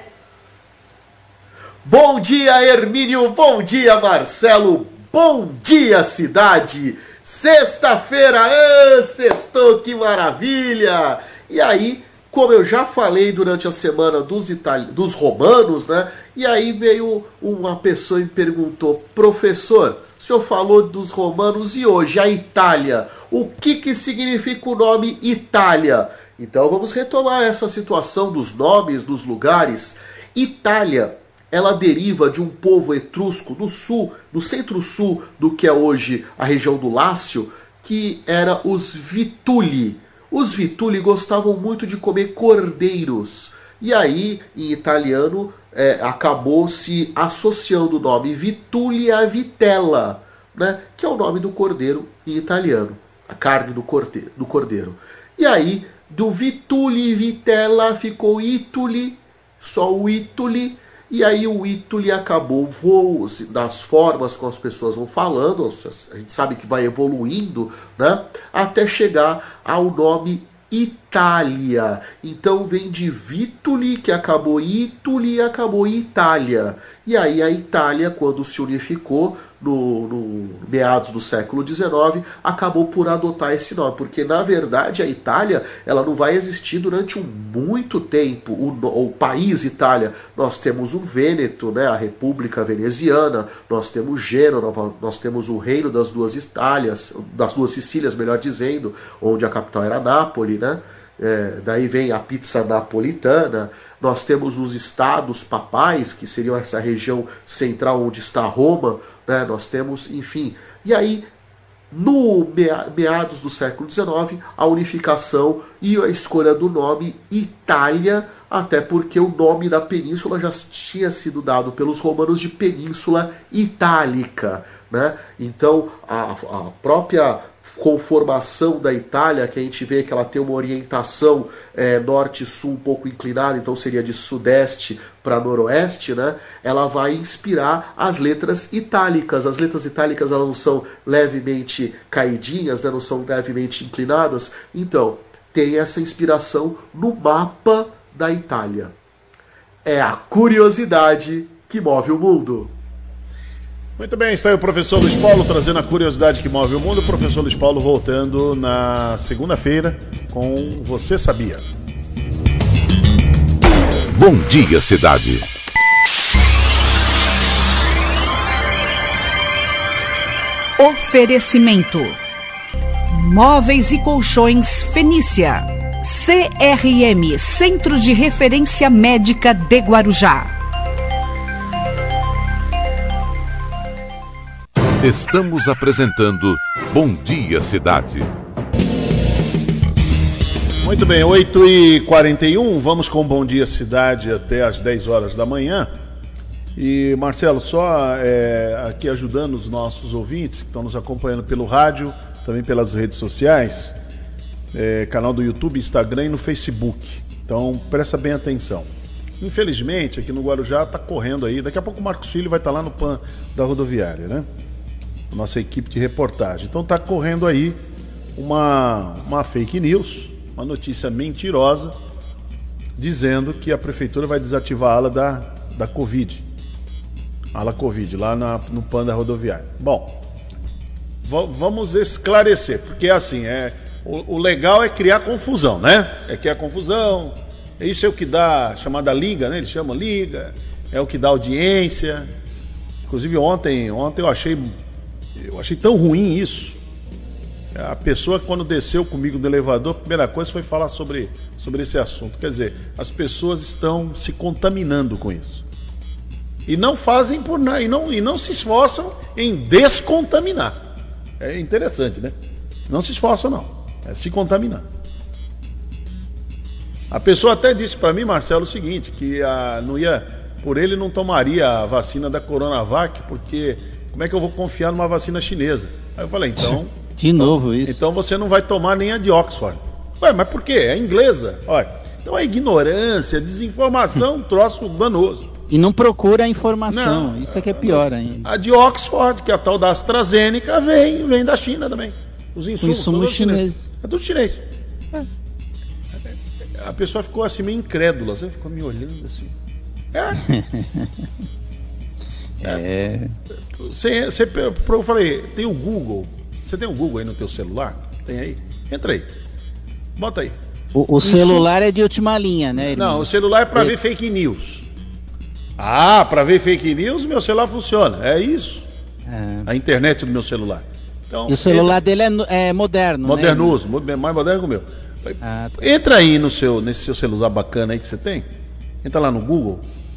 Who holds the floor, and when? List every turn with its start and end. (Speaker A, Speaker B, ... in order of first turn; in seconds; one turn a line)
Speaker A: 1.8-111.2
Speaker A: 111.9-148.9
Speaker A: 149.8-152.7
Speaker B: 154.0-161.6
Speaker C: 164.1-165.5
Speaker D: 170.8-172.2
Speaker D: 173.1-180.5
Speaker C: 185.0-188.3
Speaker B: 190.8-195.9
Speaker B: 196.8-203.9
Speaker B: 204.7-208.9
Speaker B: 209.4-214.4
Speaker B: 215.3-217.8
Speaker B: 218.3-221.9
Speaker B: 222.9-226.4
Speaker B: 227.5-230.2
Speaker B: 231.2-242.3
Speaker B: 243.1-244.8
Speaker B: 245.3-246.8
Speaker B: 247.7-255.6
Speaker B: 256.6-260.8
Speaker B: 261.4-262.3
Speaker B: 262.9-264.9
Speaker B: 267.1-285.5
Speaker E: 276.6-278.0
Speaker E: 285.7-288.4
Speaker B: 286.9-294.6
Speaker E: 292.8-293.9
Speaker B: 296.7-299.5
Speaker B: 300.1-300.4
Speaker E: 300.4-301.2
Speaker E: 302.6-303.3
Speaker B: 303.7-309.3
Speaker B: 310.2-310.5
Speaker E: 310.9-313.9
Speaker B: 311.2-311.7
Speaker B: 312.8-314.9
Speaker B: 315.8-318.9
Speaker E: 319.3-319.7
Speaker B: 319.6-322.0
Speaker E: 321.5-323.8
Speaker B: 323.2-328.5
Speaker E: 325.4-325.7
Speaker B: 329.0-329.8